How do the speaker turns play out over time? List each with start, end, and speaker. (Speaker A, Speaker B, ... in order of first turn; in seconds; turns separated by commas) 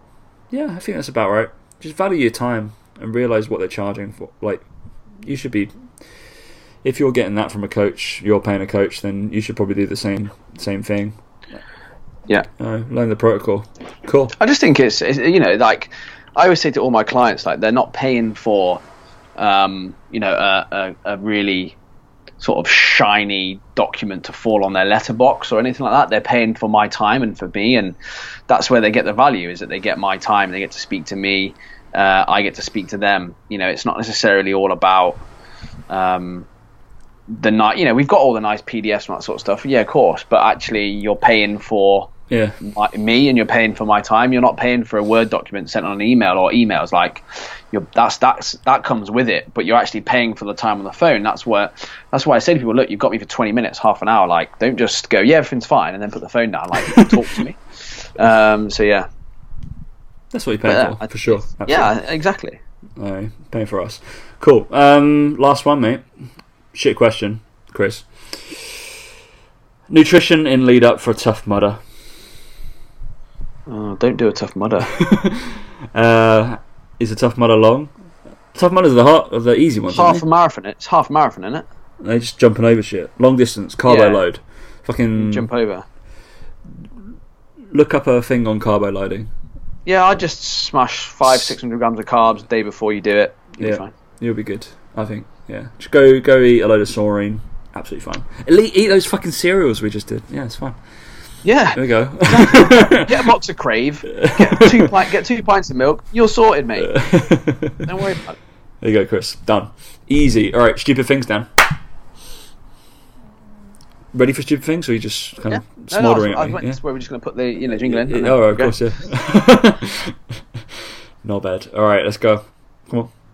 Speaker A: 0.5-4.6, Speaker A: 5.2-5.7, Speaker A: 6.8-11.6, Speaker A: 12.6-14.3, Speaker B: 14.4-18.8, Speaker B: 19.4-21.8, Speaker B: 22.4-27.9, Speaker B: 28.5-35.2, Speaker B: 35.9-36.5, Speaker B: 37.3-59.0, Speaker A: 42.3-42.6, Speaker A: 56.8-57.1, Speaker A: 60.3-61.9, Speaker B: 60.7-62.6, Speaker A: 63.0-66.0, Speaker A: 66.7-68.8, Speaker A: 69.9-71.8, Speaker B: 73.7-74.9, Speaker A: 74.9-77.9, Speaker A: 78.5-80.2, Speaker B: 79.9-81.7, Speaker A: 82.0-85.5, Speaker B: 83.8-84.2, Speaker B: 85.1-85.8, Speaker A: 87.7-89.3, Speaker B: 89.8-93.9, Speaker A: 91.3-91.5, Speaker A: 93.6-100.8, Speaker B: 101.4-107.0, Speaker A: 101.7-103.2, Speaker A: 104.1-105.0, Speaker A: 106.8-107.9, Speaker B: 107.8-108.4, Speaker A: 108.8-111.5, Speaker A: 114.1-116.8, Speaker B: 115.5-118.7, Speaker A: 117.8-120.2, Speaker A: 121.2-123.1